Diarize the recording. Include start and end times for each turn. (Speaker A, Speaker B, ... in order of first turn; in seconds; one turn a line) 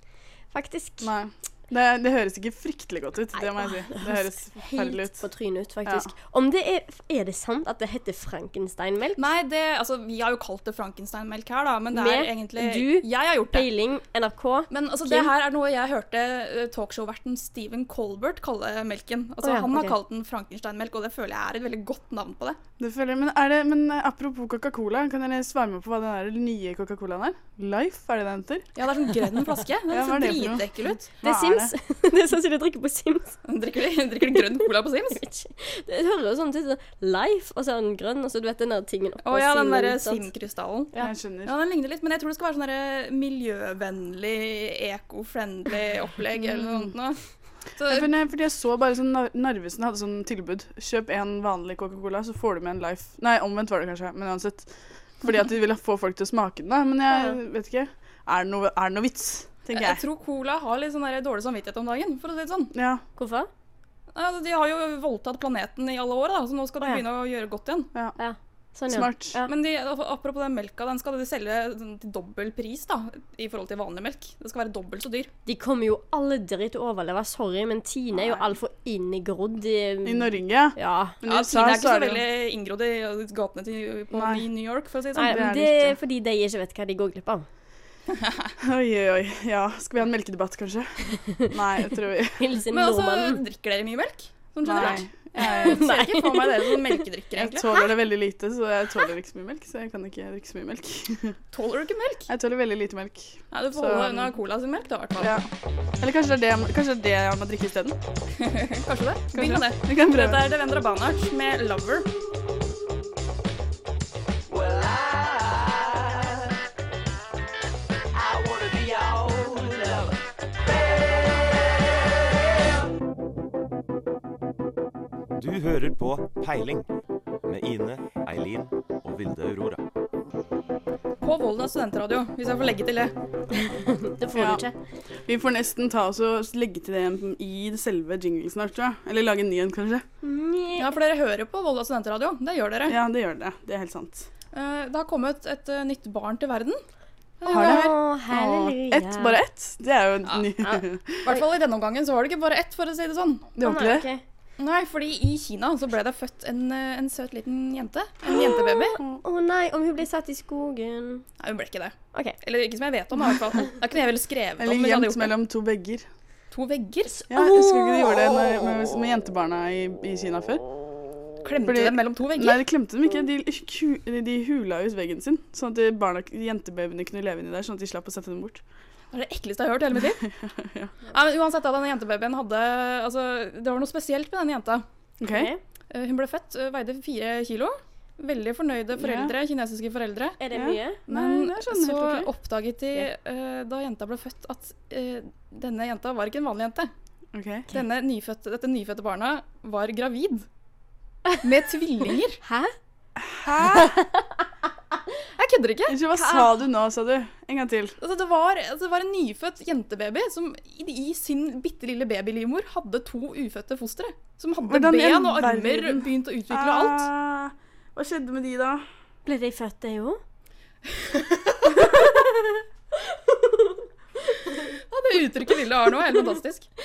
Speaker A: 0.5-1.1
Speaker B: 1.0-5.2
Speaker A: 3.4-9.3
Speaker B: 5.9-6.1
Speaker C: 9.2-13.7
Speaker A: 11.9-15.3
Speaker C: 14.7-22.6
Speaker A: 19.4-19.9
Speaker B: 22.8-28.7
Speaker C: 28.8-31.1
Speaker B: 29.9-31.7
Speaker A: 31.2-33.4
Speaker C: 33.5-35.2
Speaker A: 34.3-40.2
Speaker C: 39.2-47.2
Speaker B: 41.0-41.5
Speaker C: 47.8-48.1
Speaker B: 47.9-60.0
Speaker A: 57.1-57.4
Speaker C: 59.7-62.7
Speaker B: 62.7-63.0
Speaker A: 63.2-63.5
Speaker C: 64.1-67.9
Speaker A: 68.2-69.5
Speaker B: 68.9-69.4
Speaker C: 69.5-75.3
Speaker A: 75.5-81.2
Speaker B: 78.1-78.5
Speaker B: 80.0-82.2
Speaker C: 81.3-86.0
Speaker B: 84.1-84.5
Speaker A: 85.2-87.5
Speaker B: 85.3-85.7
Speaker C: 88.1-88.5
Speaker B: 88.6-92.5
Speaker A: 91.1-91.5
Speaker A: 92.4-93.4
Speaker C: 92.7-97.7
Speaker B: 94.6-95.8
Speaker A: 94.8-97.0
Speaker B: 97.4-101.4
Speaker C: 101.5-102.3
Speaker B: 102.3-104.3
Speaker C: 103.5-105.4
Speaker B: 105.2-108.0
Speaker C: 108.4-112.1
Speaker B: 109.3-110.5
Speaker D: 125.4-126.9
Speaker D: 127.5-129.8
Speaker C: 131.2-133.1
Speaker A: 133.6-134.8
Speaker B: 134.3-134.7
Speaker B: 135.3-140.0
Speaker A: 140.2-140.9
Speaker C: 140.8-143.0
Speaker B: 142.9-144.3
Speaker C: 144.5-146.8
Speaker C: 147.4-147.9
Speaker A: 147.5-149.4
Speaker B: 147.5-151.3
Speaker C: 150.3-150.5
Speaker C: 151.2-153.5
Speaker B: 153.6-154.1
Speaker A: 153.6-154.2
Speaker C: 154.6-159.0
Speaker B: 158.3-159.2
Speaker A: 158.3-161.2
Speaker C: 161.4-165.3
Speaker B: 164.6-166.1
Speaker C: 166.5-167.3
Speaker A: 167.3-168.7
Speaker B: 167.3-170.6
Speaker C: 171.4-172.7
Speaker B: 171.6-178.6
Speaker C: 179.1-180.2
Speaker B: 180.2-181.1
Speaker C: 181.1-184.8
Speaker B: 185.2-185.5
Speaker A: 185.3-185.6
Speaker C: 185.9-190.4
Speaker B: 189.0-189.3
Speaker A: 190.4-191.0
Speaker B: 190.5-192.3
Speaker C: 191.1-196.9
Speaker B: 197.3-197.7
Speaker C: 197.7-200.5
Speaker C: 201.4-202.4
Speaker A: 202.4-202.7
Speaker B: 203.2-204.0
Speaker A: 203.8-204.2
Speaker C: 205.4-206.6
Speaker B: 205.9-208.0
Speaker C: 208.0-217.1
Speaker B: 214.6-218.8
Speaker A: 219.3-220.2
Speaker A: 221.5-222.4
Speaker A: 223.0-223.8
Speaker C: 224.7-226.7